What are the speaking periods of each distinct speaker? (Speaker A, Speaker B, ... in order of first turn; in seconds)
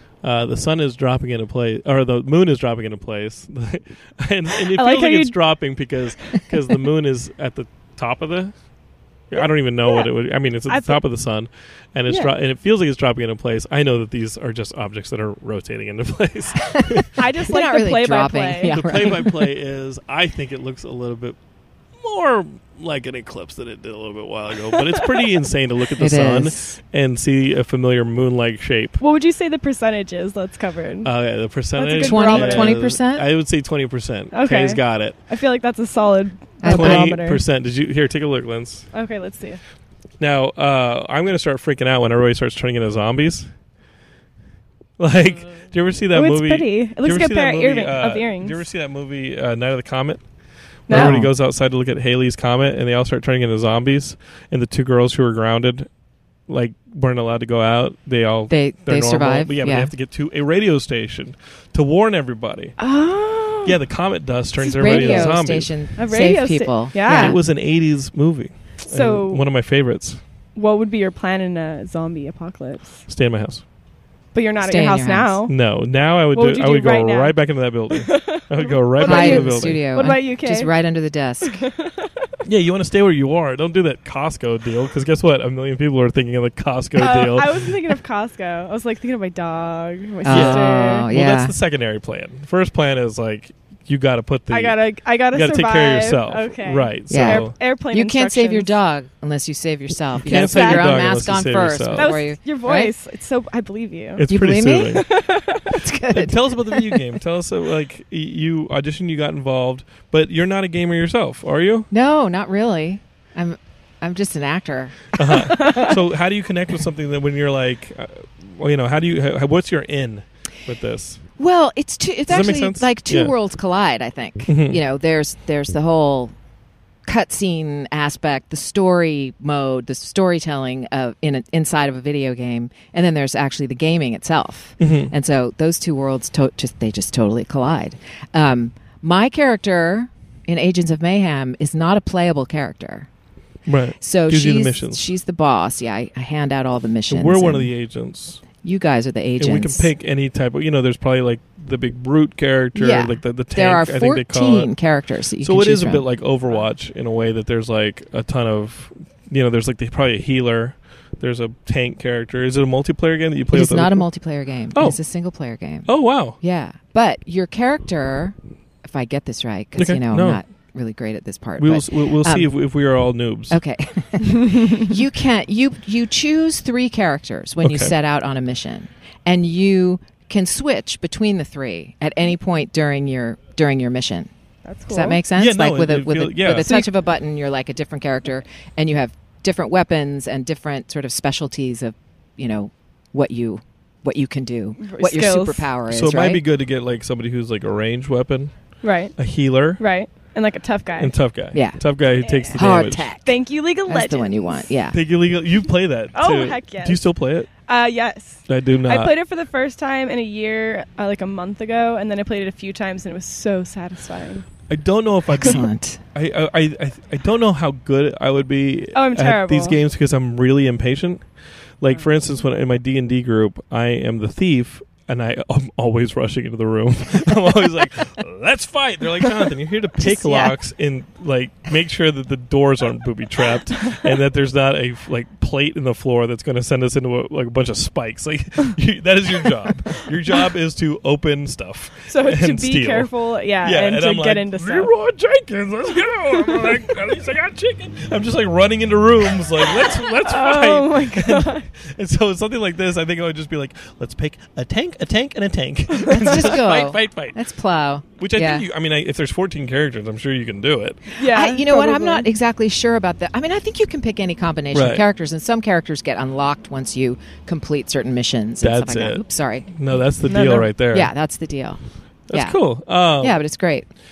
Speaker A: 0.2-8.5, 9.3-17.1, 18.7-21.4, 21.9-29.0, 31.0-35.2, 36.7-38.9, 40.2-43.5, 45.0-50.2, 50.9-55.9, 56.5-62.8, 63.6-65.7, 67.1-70.2, 73.1-73.6, 75.5-79.8, 82.4-87.7, 90.3-94.8, 95.3-97.5, 100.2-102.2, 104.2-105.2, 106.1-111.9, 115.2-121.2, 122.3-123.3, 124.5-124.8, 134.8-135.1, 143.7-145.0, 147.1-148.4, 149.4-154.7, 155.4-164.1, 164.7-165.0, 165.9-166.4, 169.8-170.4, 171.6-173.6, 177.6-177.9, 185.3-186.8, 195.9-198.5, 199.2-199.8, 201.0-203.1, 204.9-207.5, 208.5-209.1, 214.7-221.2, 221.8-243.1, 243.6-257.4, 258.2-261.1, 264.7-265.0, 268.6-271.1, 272.3-273.4
Speaker B: 4.7-5.3, 10.7-11.0, 17.1-18.8, 24.7-25.3, 29.0-31.1, 31.8-32.8, 34.3-37.4, 38.9-39.6, 46.1-48.6, 50.9-51.2, 62.8-63.7, 64.7-65.3, 66.0-67.4, 68.8-69.4, 70.5-73.0, 74.3-75.5, 76.3-77.3, 77.9-80.7, 81.4-82.3, 87.0-91.1, 94.5-98.7, 100.3-101.0, 101.9-104.2, 104.9-105.8, 115.6-115.9, 184.7-185.2, 194.8-195.7, 198.8-199.2, 199.8-201.1, 202.2-202.7, 203.2-204.7, 206.1-214.5, 218.9-219.8, 230.1-230.5, 242.1-244.9, 249.7-251.7, 261.1-262.3, 270.2-270.7
Speaker C: 16.6-19.4, 26.0-26.8, 31.9-33.2, 36.6-37.1, 50.9-51.3, 58.5-59.9, 64.6-67.4, 74.6-75.4, 79.0-81.6, 90.2-91.5, 97.1-102.9, 104.3-105.1, 105.7-106.9, 111.9-115.9, 121.4-126.3, 127.0-143.1, 144.0-147.7, 148.6-149.9, 152.7-156.0, 163.5-172.5, 173.5-184.3, 184.9-196.4, 201.5-201.8, 202.5-203.3, 203.9-205.0, 215.3-216.0, 256.1-258.6, 261.2-269.7, 270.9-271.8, 272.3-272.6, 273.2-273.9